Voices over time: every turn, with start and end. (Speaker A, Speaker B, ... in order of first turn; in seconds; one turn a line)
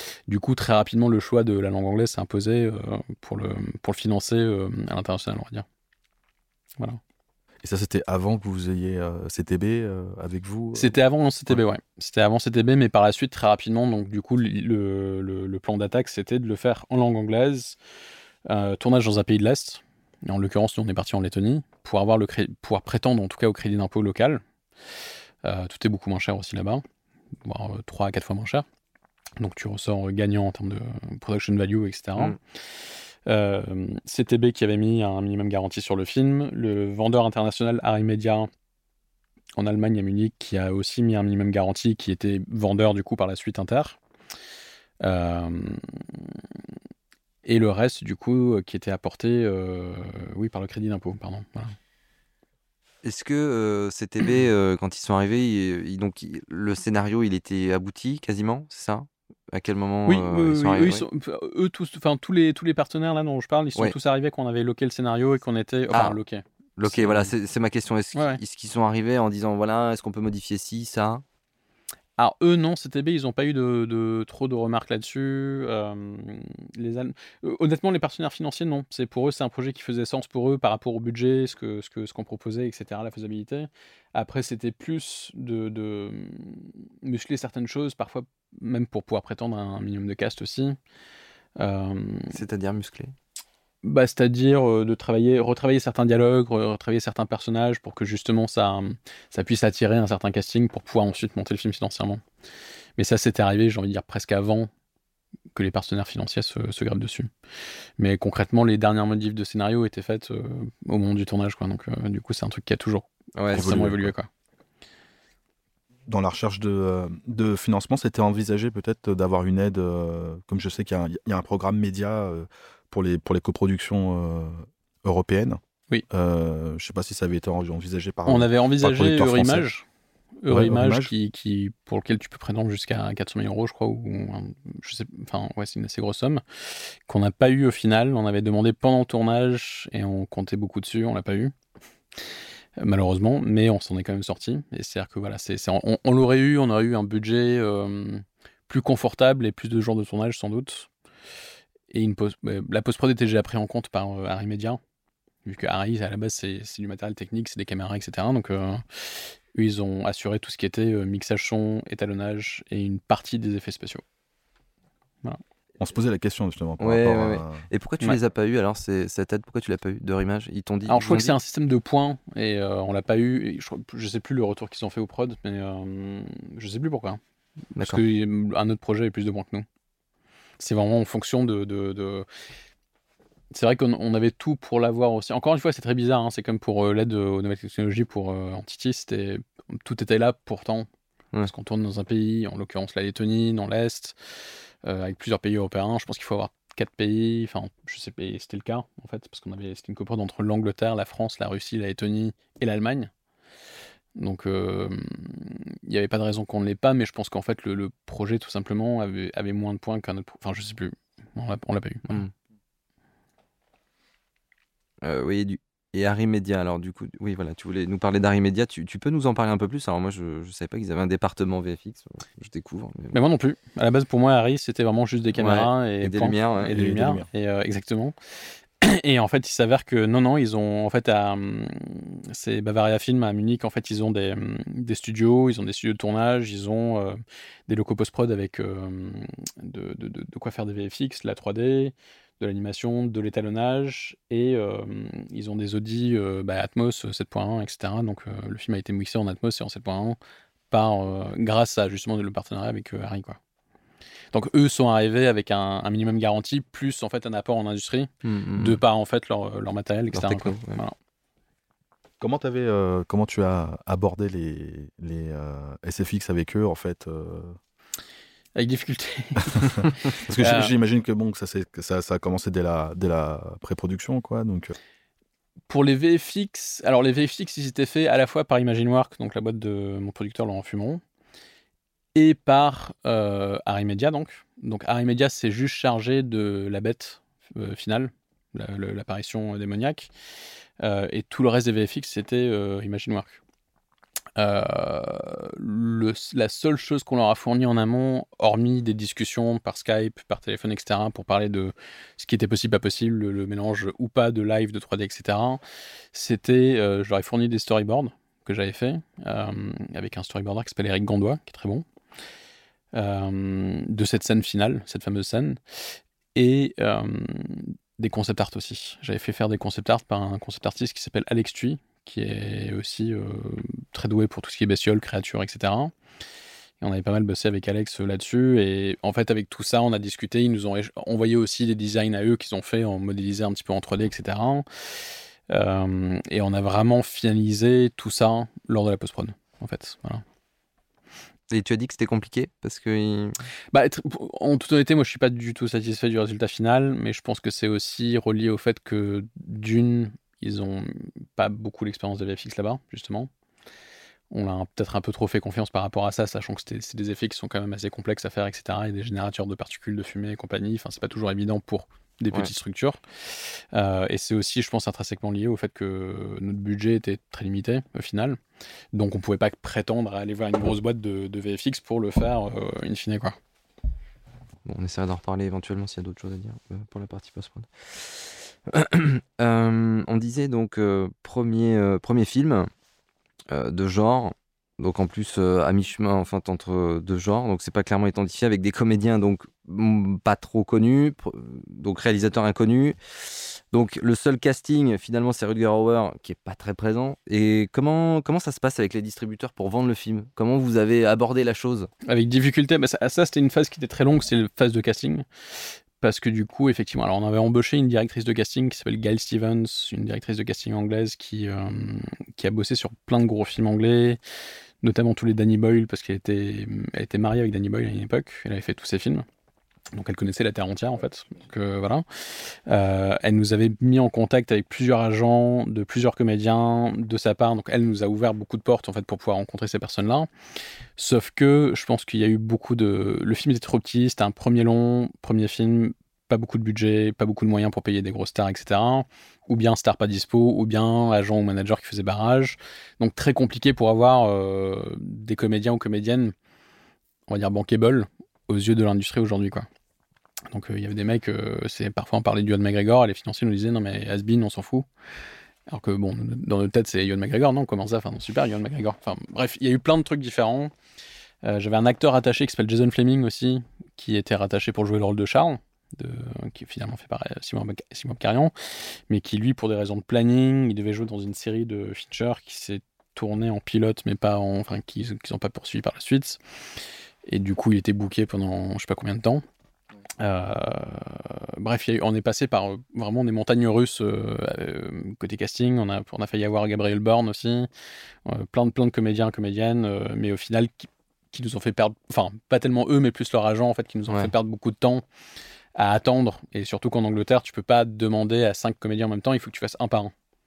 Speaker A: 0.3-5.7
Speaker B: 7.6-11.0
Speaker A: 10.8-17.8
Speaker A: 18.5-24.4
Speaker A: 25.4-26.8
Speaker A: 27.4-28.6
Speaker A: 29.4-32.4
Speaker A: 33.3-38.5
Speaker A: 39.6-44.0
Speaker A: 45.0-46.2
Speaker A: 47.4-51.8
Speaker C: 53.0-61.0
Speaker A: 60.1-67.3
Speaker C: 66.8-71.2
Speaker A: 68.1-68.4
Speaker A: 72.2-90.8
Speaker A: 91.6-92.4
Speaker C: 92.3-93.1
Speaker A: 93.8-102.2
Speaker A: 103.0-104.7
Speaker A: 105.5-107.3
Speaker A: 108.0-114.3
Speaker C: 113.4-113.8
Speaker B: 113.5-114.1
Speaker B: 116.1-129.7
Speaker A: 128.3-129.8
Speaker A: 130.4-136.4
Speaker B: 130.5-131.1
Speaker A: 137.1-141.5
Speaker A: 142.8-150.9
Speaker A: 151.9-154.8
Speaker A: 155.4-164.0
Speaker B: 165.8-167.7
Speaker C: 166.8-171.3
Speaker A: 170.9-177.2
Speaker A: 177.8-179.7
Speaker A: 180.6-182.3
Speaker A: 183.5-190.9
Speaker A: 191.5-194.2
Speaker A: 194.8-203.1
Speaker A: 204.2-212.3
Speaker C: 215.0-223.1
Speaker A: 223.1-228.2
Speaker C: 225.4-226.8
Speaker B: 226.7-227.3
Speaker A: 228.8-250.2
Speaker A: 250.7-253.4
Speaker A: 254.3-261.0
Speaker C: 258.2-258.8
Speaker C: 260.1-260.8
Speaker B: 262.2-267.6
Speaker A: 268.6-270.7
Speaker B: 270.2-274.8
Speaker A: 275.7-281.0
Speaker A: 282.1-290.1
Speaker A: 290.8-293.4
Speaker A: 294.4-305.6
Speaker A: 306.1-311.9
Speaker A: 312.9-315.6
Speaker A: 316.4-325.9
Speaker A: 326.8-334.6
Speaker A: 335.5-340.2
Speaker C: 341.5-343.4
Speaker A: 343.7-353.3
Speaker A: 354.3-368.4
Speaker A: 368.9-373.4
Speaker C: 374.6-382.7
Speaker C: 383.5-401.9
Speaker A: 402.1-405.2
Speaker A: 406.0-414.2
Speaker A: 414.8-419.3
Speaker A: 419.9-430.3
Speaker A: 431.0-446.3
Speaker A: 447.3-449.7
Speaker A: 450.5-454.9
Speaker A: 455.7-460.7
Speaker A: 461.4-476.4
Speaker A: 477.3-479.4
Speaker A: 480.2-487.7
Speaker A: 488.3-495.0
Speaker A: 495.8-500.1